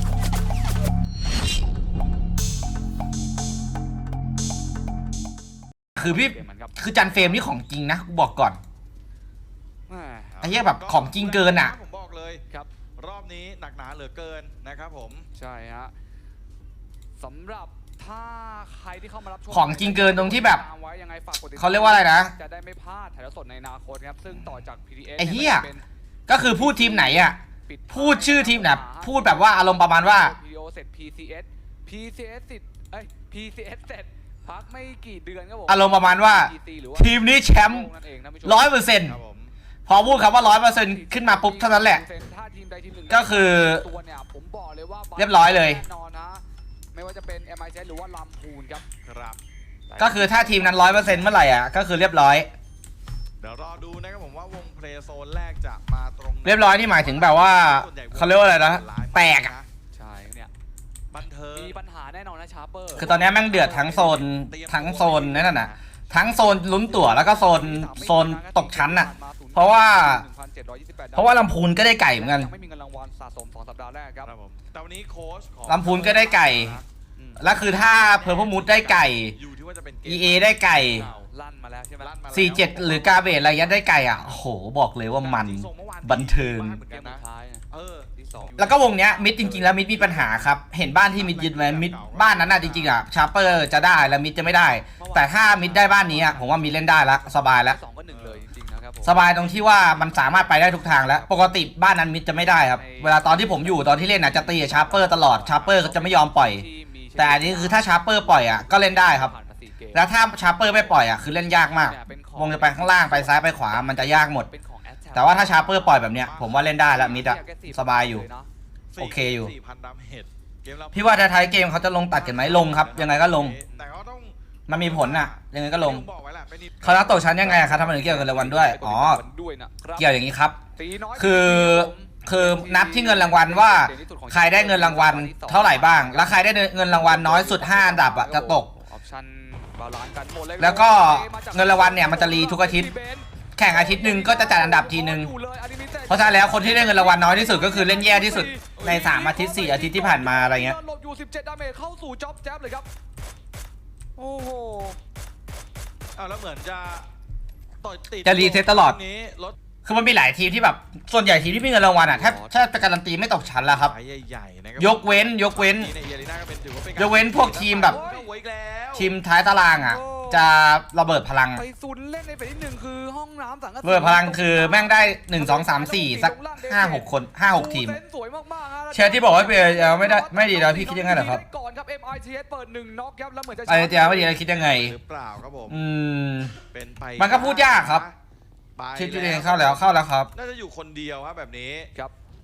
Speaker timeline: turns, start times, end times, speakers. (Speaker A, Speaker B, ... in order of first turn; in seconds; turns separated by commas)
Speaker A: 6.0-8.6, Speaker B: 6.0-7.5, Speaker B: 9.9-10.4, Speaker C: 10.3-12.4, Speaker A: 10.4-11.7, Speaker C: 13.0-15.3, Speaker B: 15.3-15.9, Speaker B: 17.2-38.8, Speaker A: 19.5-20.6, Speaker A: 21.6-22.3, Speaker A: 25.2-25.7, Speaker A: 26.3-27.4, Speaker A: 27.9-30.3, Speaker A: 35.7-37.9, Speaker A: 38.5-39.2, Speaker C: 39.1-39.5, Speaker A: 39.9-42.0, Speaker B: 40.1-46.4, Speaker A: 43.1-43.9, Speaker A: 45.2-45.8, Speaker B: 46.9-48.9, Speaker C: 49.0-49.4, Speaker B: 49.9-50.2, Speaker C: 50.0-51.4, Speaker A: 50.0-52.5, Speaker C: 53.4-59.7, Speaker A: 56.4-59.5, Speaker B: 59.9-60.5, Speaker C: 61.1-61.8, Speaker B: 61.5-63.1, Speaker A: 63.0-70.2, Speaker C: 63.0-65.8, Speaker B: 66.9-71.5, Speaker A: 71.2-72.5, Speaker B: 72.1-74.3, Speaker C: 74.2-76.8, Speaker A: 75.7-76.8, Speaker B: 76.0-79.1, Speaker A: 77.4-79.4, Speaker C: 79.3-81.3, Speaker A: 80.1-81.1, Speaker B: 81.3-82.1, Speaker C: 82.0-84.4, Speaker A: 82.3-86.8, Speaker C: 85.2-88.9, Speaker B: 86.9-89.8, Speaker A: 88.6-97.8, Speaker C: 89.8-90.5, Speaker C: 91.0-92.9, Speaker B: 92.6-93.0, Speaker B: 95.0-101.3, Speaker C: 98.1-98.4, Speaker A: 99.0-106.7, Speaker B: 102.4-104.5, Speaker C: 104.1-105.5, Speaker B: 105.2-115.7, Speaker A: 107.2-109.3, Speaker A: 109.9-114.5, Speaker A: 115.1-118.3, Speaker C: 115.7-117.2, Speaker B: 116.9-118.5, Speaker C: 118.9-121.3, Speaker A: 119.0-119.5, Speaker A: 120.9-123.5, Speaker C: 122.1-128.8, Speaker A: 124.7-126.1, Speaker A: 126.8-129.2, Speaker B: 128.5-130.1, Speaker A: 130.0-130.6, Speaker B: 130.8-152.9, Speaker A: 131.2-138.7, Speaker A: 140.6-142.9, Speaker A: 143.6-145.3, Speaker A: 146.1-150.8, Speaker B: 154.2-155.0, Speaker C: 156.2-157.1, Speaker C: 157.8-159.6, Speaker A: 158.2-159.0, Speaker A: 159.8-163.9, Speaker B: 162.0-162.6, Speaker C: 163.6-169.1, Speaker A: 164.8-165.9, Speaker A: 167.0-168.0, Speaker B: 167.9-168.3, Speaker A: 168.9-171.6, Speaker B: 169.8-170.5, Speaker B: 171.6-184.3, Speaker A: 173.8-178.0, Speaker A: 178.9-181.4, Speaker A: 183.7-184.9, Speaker C: 184.6-185.8, Speaker A: 185.7-186.6, Speaker C: 186.7-188.2, Speaker A: 187.2-188.1, Speaker C: 188.8-191.9, Speaker A: 188.9-190.3